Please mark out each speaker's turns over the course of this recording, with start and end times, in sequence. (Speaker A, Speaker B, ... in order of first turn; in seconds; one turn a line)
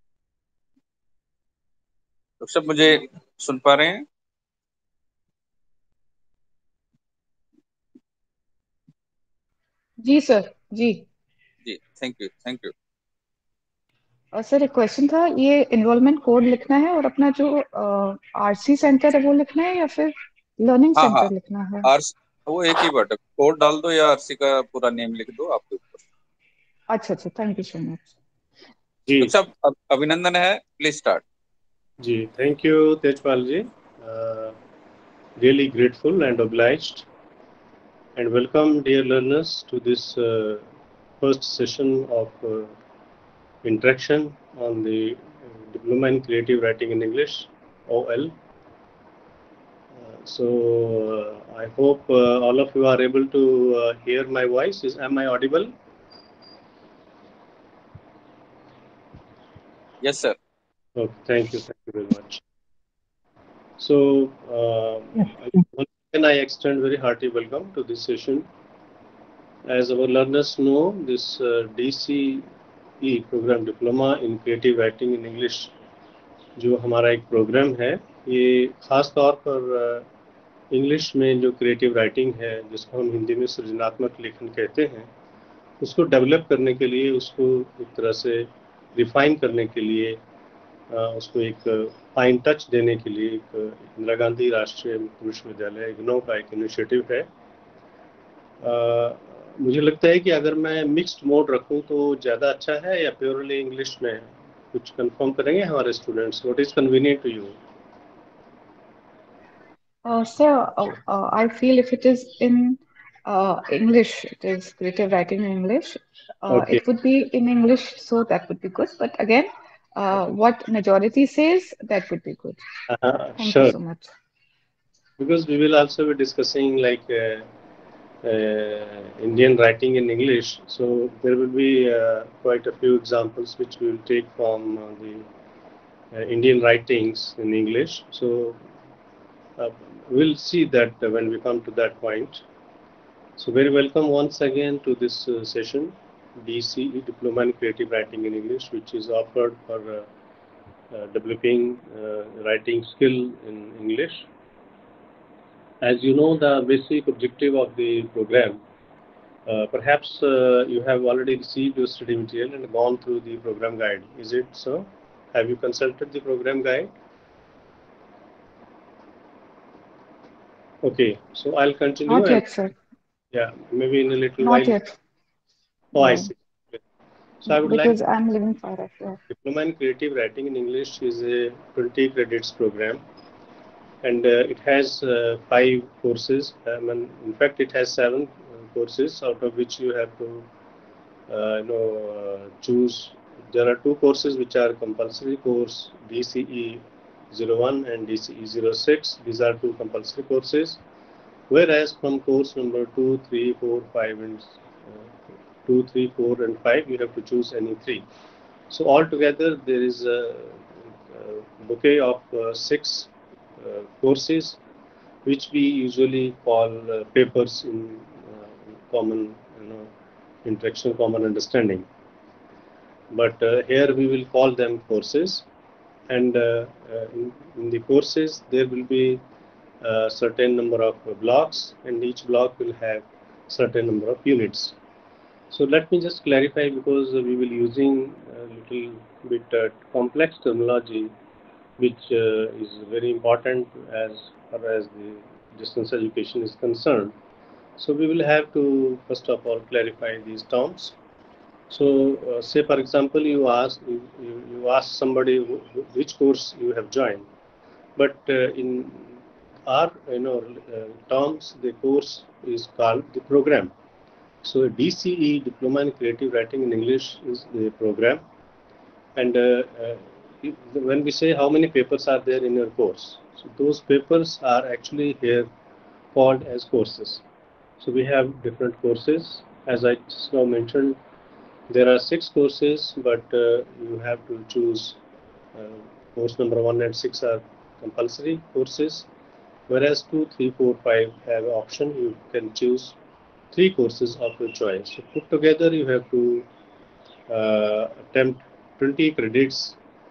Speaker A: 2.4-4.0
Speaker B: 10.0-11.1
Speaker A: 11.7-12.7
Speaker B: 14.3-21.9
Speaker A: 20.9-21.3
Speaker A: 21.8-26.0
Speaker B: 26.9-28.0
Speaker A: 29.2-31.2
Speaker C: 32.0-34.5
Speaker C: 35.4-37.1
Speaker C: 38.2-40.6
Speaker C: 41.2-42.7
Speaker C: 43.6-48.3
Speaker C: 50.0-55.7
Speaker A: 60.0-60.4
Speaker C: 61.0-62.4
Speaker C: 63.8-68.5
Speaker C: 69.7-72.5
Speaker C: 73.0-75.7
Speaker C: 76.6-80.0
Speaker C: 80.7-85.1
Speaker C: 85.8-90.2
Speaker C: 90.9-97.3
Speaker C: 98.6-107.6
Speaker B: 110.0-122.6
Speaker C: 116.5-116.8
Speaker C: 122.9-123.8
Speaker B: 123.4-124.1
Speaker C: 125.2-127.5
Speaker C: 128.2-135.2
Speaker C: 136.1-138.6
Speaker C: 139.6-142.4
Speaker C: 143.4-150.1
Speaker C: 150.9-154.2
Speaker C: 155.8-158.6
Speaker C: 159.5-166.9
Speaker C: 170.8-172.4
Speaker B: 172.1-172.7
Speaker C: 173.3-174.8
Speaker B: 174.4-174.9
Speaker C: 175.9-176.8
Speaker B: 175.9-176.3
Speaker C: 177.4-177.9
Speaker B: 177.5-179.2
Speaker C: 179.3-183.0
Speaker C: 184.0-190.5
Speaker C: 191.3-200.8
Speaker C: 201.5-204.6
Speaker C: 205.7-208.1
Speaker C: 208.7-214.6
Speaker C: 215.2-219.9
Speaker C: 220.4-221.9
Speaker C: 223.1-225.5
Speaker C: 226.1-229.2
Speaker C: 229.8-234.7
Speaker C: 235.5-241.1
Speaker C: 241.8-247.2
Speaker C: 247.8-251.0
Speaker C: 251.7-257.2
Speaker C: 258.0-263.7
Speaker C: 264.4-268.2
Speaker C: 269.1-275.5
Speaker C: 276.1-277.2
Speaker C: 277.8-281.0
Speaker C: 281.7-285.0
Speaker C: 285.6-289.1
Speaker C: 289.7-293.0
Speaker C: 293.5-296.5
Speaker C: 297.3-299.8